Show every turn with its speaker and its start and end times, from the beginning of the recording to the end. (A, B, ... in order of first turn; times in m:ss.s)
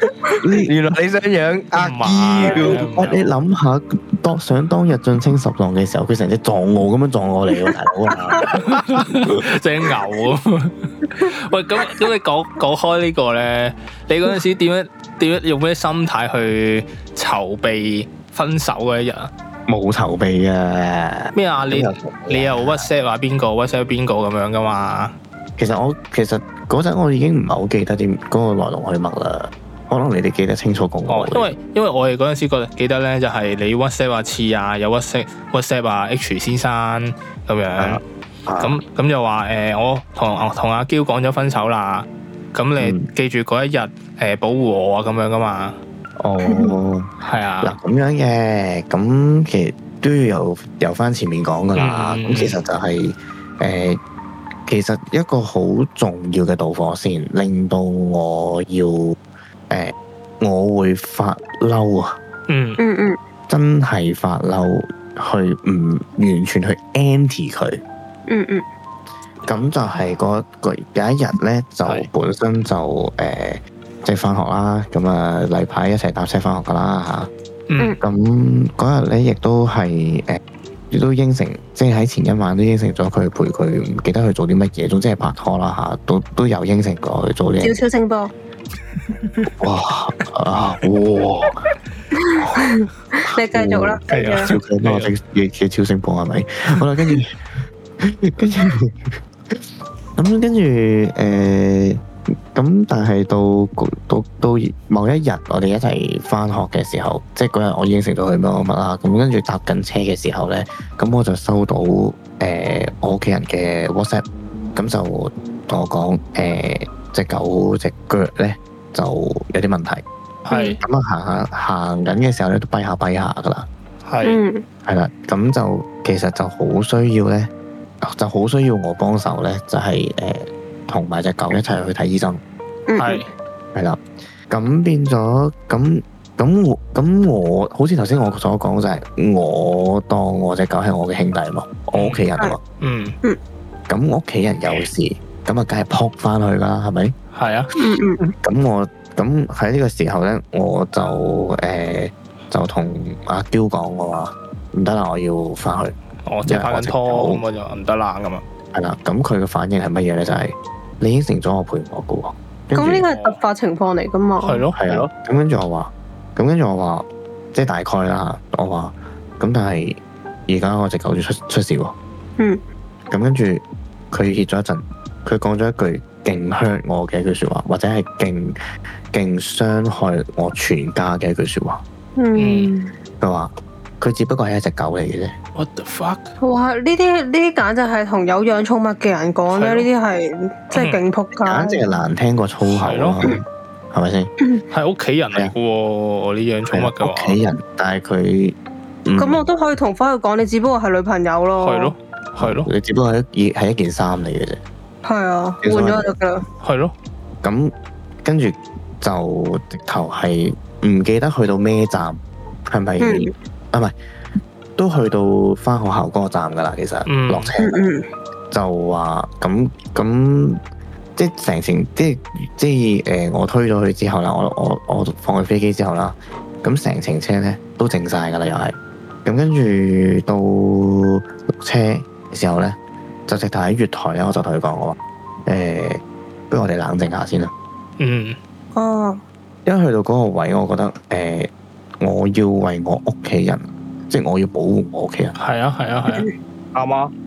0:00.4-0:00.7 A
0:00.6-0:02.8 B
0:01.7-0:03.2 C
0:02.7-0:09.4 A
0:08.6-0:19.3 C
0:19.7-0:22.9 A
0:21.3-0:25.1 C
0:25.6-0:31.6 A
0:31.1-0:38.0 C
0:37.8-0:38.8 A
0:38.6-0:45.8 C
0:42.8-0:43.1 A
0:46.2-0:47.1 A
0:46.4-0:46.7 D
0:47.2-0:47.7 C
0:47.6-0:54.0 A
0:51.7-0:52.6 C
0:54.7-0:59.2 A
0:59.7-1:02.2 A
1:02.5-1:02.8 C
1:02.8-1:03.2 D
1:03.5-1:07.8 A
1:08.3-1:08.6 D
1:09.4-1:17.3 A
1:17.7-1:18.0 C
1:18.0-1:27.8 A
1:27.6-1:28.3 D
1:29.2-1:29.5 C
1:29.6-1:31.6 A
1:32.1-1:34.5 D
1:33.5-1:37.4 A
1:34.1-1:35.1 C
1:38.0-1:39.6 A
1:40.2-2:00.0 A
2:00.4-2:00.8 C
2:00.5-2:00.8 D
2:00.8-2:03.7 A
2:04.0-2:04.4 C
2:04.2-2:04.6 D
2:04.8-2:07.5 A
2:08.0-2:12.4 A
2:12.9-2:13.2 D
2:13.0-2:13.3 C
2:13.7-2:22.6 A
2:21.9-2:22.2 C
2:22.8-2:23.2 C
2:23.9-2:27.1 A
2:27.3-2:27.7 C
2:27.8-2:28.2 D
2:28.4-2:37.4 A
2:36.3-2:38.4 C
2:38.7-2:43.0 A
2:42.7-2:44.6 D
2:43.0-2:43.4 C
2:44.4-2:45.0 C
2:44.7-2:52.0 A
2:53.1-2:58.6 A
2:59.1-3:01.8 A
3:02.2-3:02.9 D
3:02.4-3:02.7 C
3:03.2-3:05.4 A
3:05.6-3:06.3 C
3:06.4-3:11.8 D
3:09.5-3:09.9 C
3:10.7-3:11.0 C
3:11.4-3:14.3 A
3:12.6-3:13.2 C
3:14.7-3:17.4 C
3:16.7-3:19.5 A
3:19.1-3:21.9 D
3:21.6-3:22.7 C
3:22.4-3:24.6 A
3:25.0-3:26.4 D
3:25.6-3:26.1 A
3:26.6-3:26.9 C
3:27.4-3:27.7 A
3:28.2-3:34.0 A
3:33.0-3:33.3 D
3:34.8-3:37.8 A
3:37.0-3:37.5 C
3:37.6-3:38.1 D
3:38.5-3:40.6 A
3:41.2-3:57.5 A
3:58.0-3:58.4 C
3:58.7-3:59.2 D
3:59.6-4:05.4 A
4:05.4-4:06.3 C
4:06.7-4:07.1 B